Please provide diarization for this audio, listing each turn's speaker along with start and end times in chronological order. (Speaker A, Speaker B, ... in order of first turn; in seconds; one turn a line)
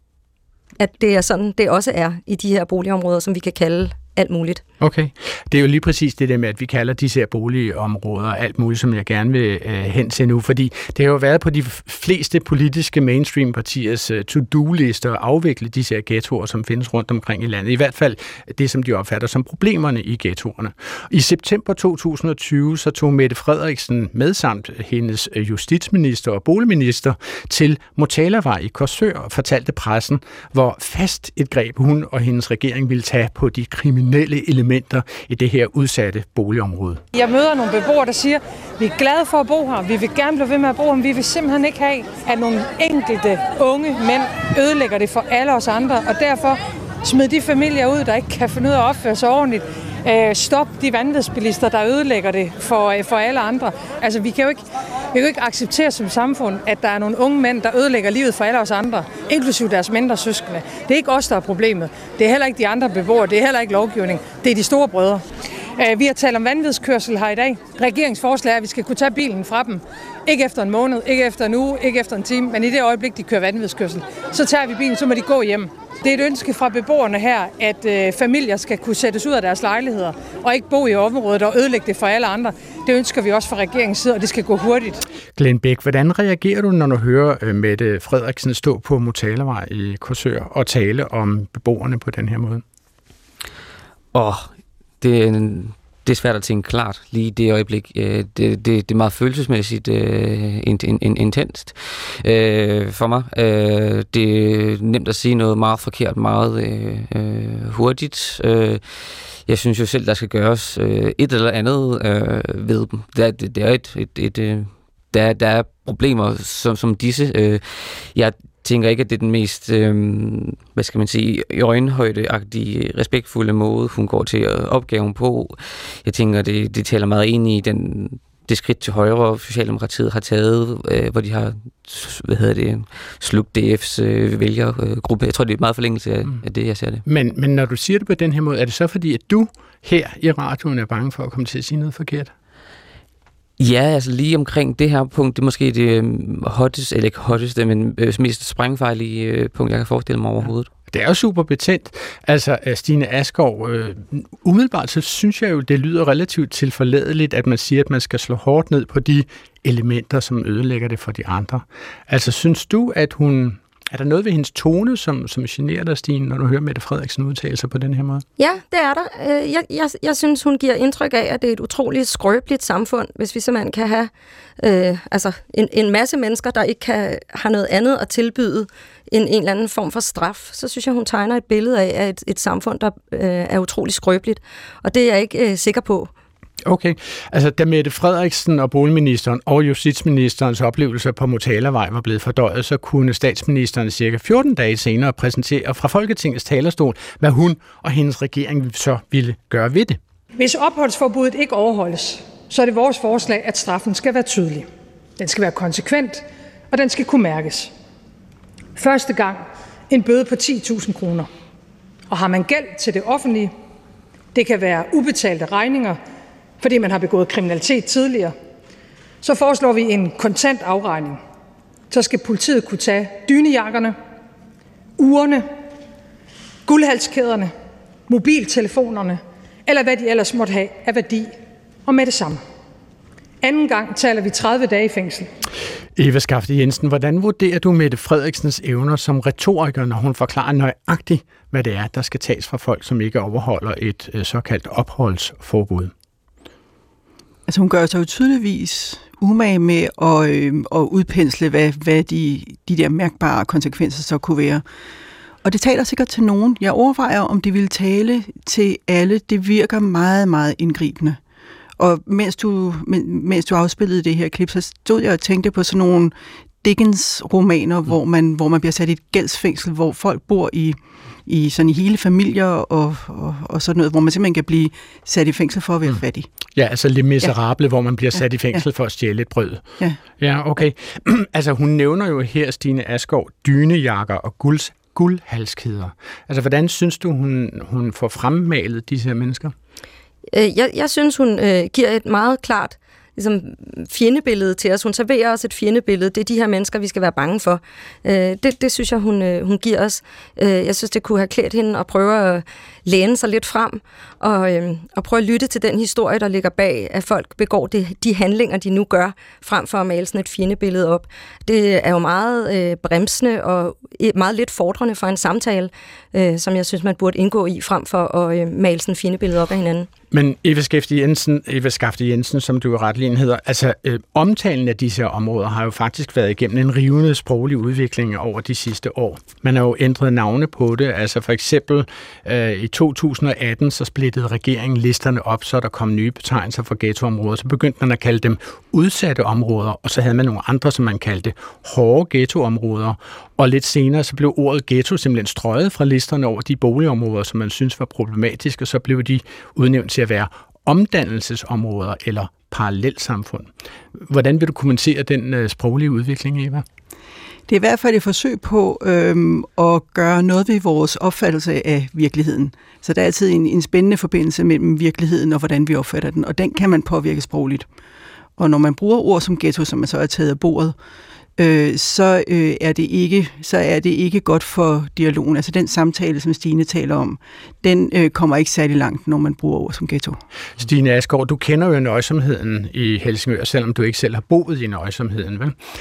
Speaker A: 0.8-4.6
Speaker B: 4.8-37.0
Speaker C: 37.1-65.2
Speaker C: 65.8-85.0
Speaker B: 85.4-92.6
Speaker D: 94.1-94.5
Speaker D: 95.0-137.0
Speaker B: 137.1-142.3
Speaker D: 143.6-150.7
Speaker B: 150.9-168.2
Speaker A: 168.4-186.1
Speaker B: 186.7-200.0
Speaker C: 200.4-204.7
Speaker C: 205.2-207.7
Speaker C: 208.8-211.3
Speaker C: 212.1-213.5
Speaker C: 214.3-216.0
Speaker C: 216.6-218.3
Speaker C: 219.2-221.2
Speaker C: 221.9-224.0
Speaker C: 225.0-225.5
Speaker C: 226.7-227.5
Speaker C: 228.1-231.3
Speaker C: 231.9-232.4
Speaker C: 233.4-235.3
Speaker B: 236.0-245.9
Speaker E: 247.5-254.6
Speaker E: 255.4-261.2
Speaker E: 261.8-276.3
Speaker B: 276.6-279.6
Speaker B: 280.2-289.5
Speaker A: 290.3-319.9
Speaker B: 320.1-356.6
Speaker E: 357.5-367.7
Speaker E: 368.4-370.8
Speaker E: 371.4-380.2
Speaker B: 380.6-385.6